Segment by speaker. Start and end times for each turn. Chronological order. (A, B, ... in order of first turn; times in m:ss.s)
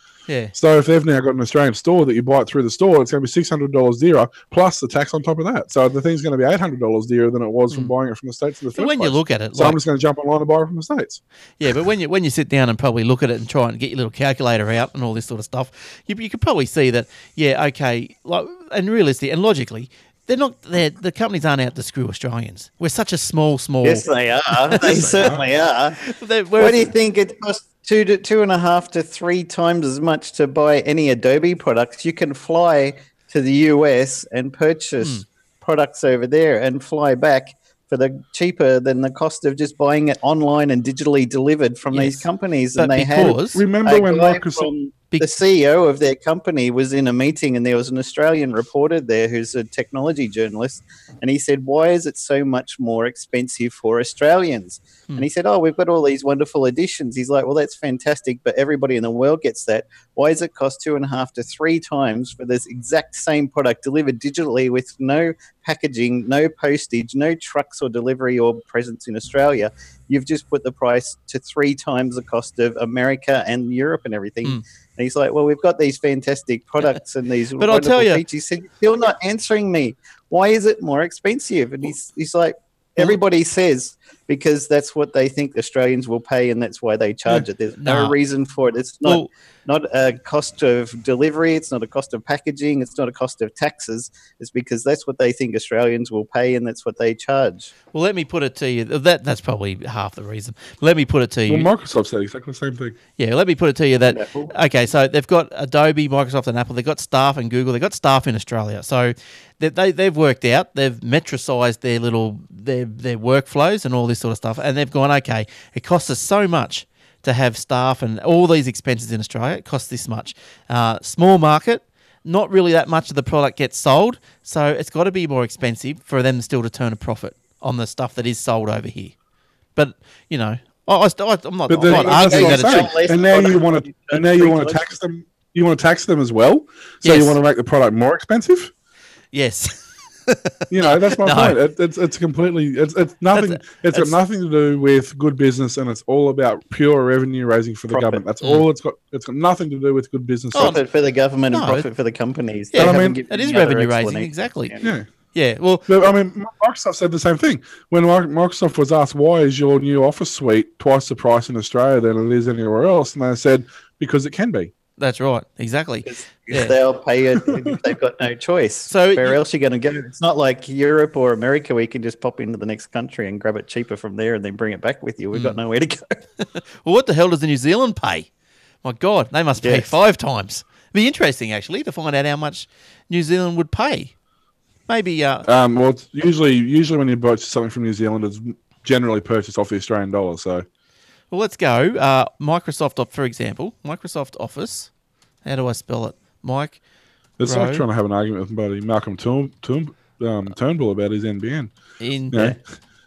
0:00.3-0:00.5 A
0:00.5-0:11.7 B
0:08.8-0:09.8 A
0:11.6-0:25.3 A
0:23.8-0:26.0 C
0:24.8-0:25.4 B
0:26.0-0:26.9 A
0:26.6-1:37.7 C
0:41.9-0:43.6 A
0:43.2-0:44.7 B
1:17.6-1:18.2 A
1:27.8-1:28.2 A
1:37.9-1:41.7 A
1:41.5-1:43.0 B
1:43.2-2:09.2 A
1:44.1-1:44.5 C
2:09.8-2:13.0 A
2:11.7-2:18.7 B
2:11.8-2:15.0 C
2:17.0-2:17.4 A
2:19.3-2:21.6 A
2:20.7-2:30.8 B
2:23.3-2:24.2 A
2:27.9-2:28.2 C
2:30.5-2:30.8 A
2:30.5-2:35.0 C
2:31.5-2:31.8 A
2:32.7-2:34.8 A
2:32.8-2:33.2 B
2:35.3-2:36.0 A
2:35.9-2:44.7 B
2:45.0-2:46.8 A
2:46.0-2:56.2 C
2:48.9-2:49.4 A
2:55.3-2:55.6 A
2:56.5-2:58.3 A
2:58.8-3:04.1 A
2:59.6-2:59.9 C
3:04.9-3:05.4 A
3:05.4-3:10.6 B
3:11.3-3:14.9 A
3:15.4-3:16.8 A
3:17.4-3:21.7 B
3:17.4-3:17.8 A
3:22.0-3:22.5 A
3:22.3-3:22.6 B